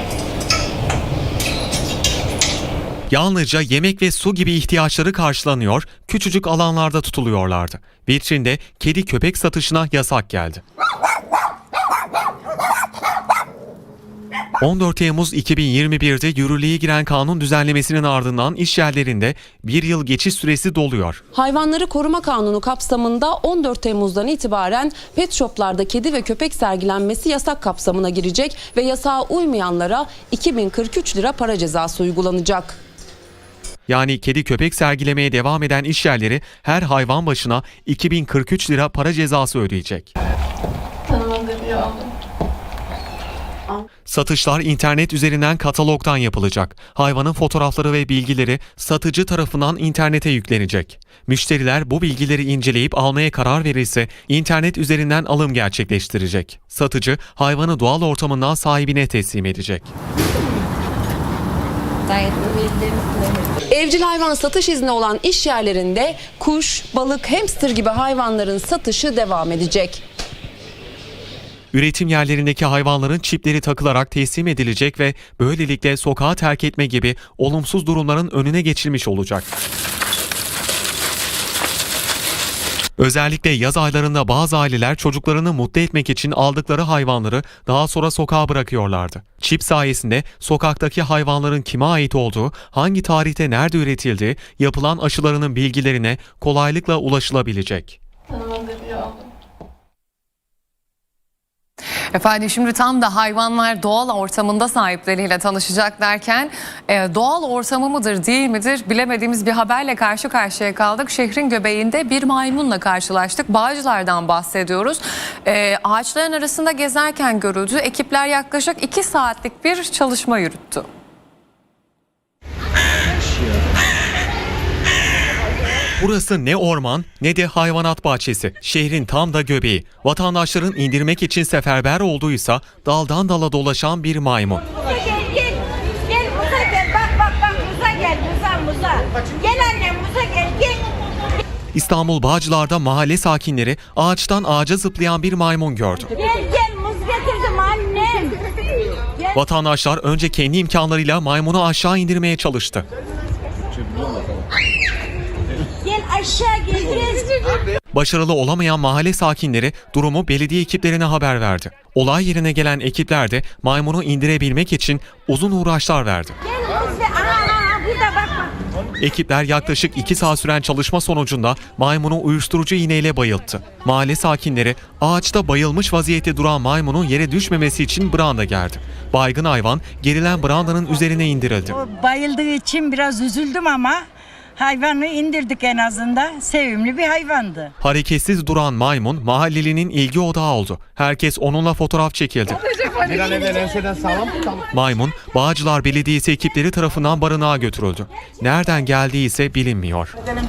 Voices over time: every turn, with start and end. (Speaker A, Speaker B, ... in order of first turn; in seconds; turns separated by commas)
Speaker A: 3.1-10.6, Speaker A: 14.6-21.2, Speaker B: 21.3-32.8, Speaker A: 33.9-40.1, Speaker C: 41.2-41.9, Speaker A: 44.0-59.9, Speaker B: 63.7-70.0, Speaker A: 71.7-79.5, Speaker A: 83.0-98.0, Speaker C: 98.5-99.1, Speaker D: 102.1-120.9, Speaker A: 126.0-134.6, Speaker C: 136.2-140.7, Speaker A: 141.7-146.2, Speaker C: 146.5-148.3, Speaker A: 149.3-152.8, Speaker C: 156.1-157.2, Speaker A: 157.9-166.3, Speaker A: 169.0-181.8, Speaker E: 181.7-184.0, Speaker E: 184.6-187.7, Speaker A: 187.8-192.6, Speaker D: 192.8-194.2, Speaker A: 194.7-200.2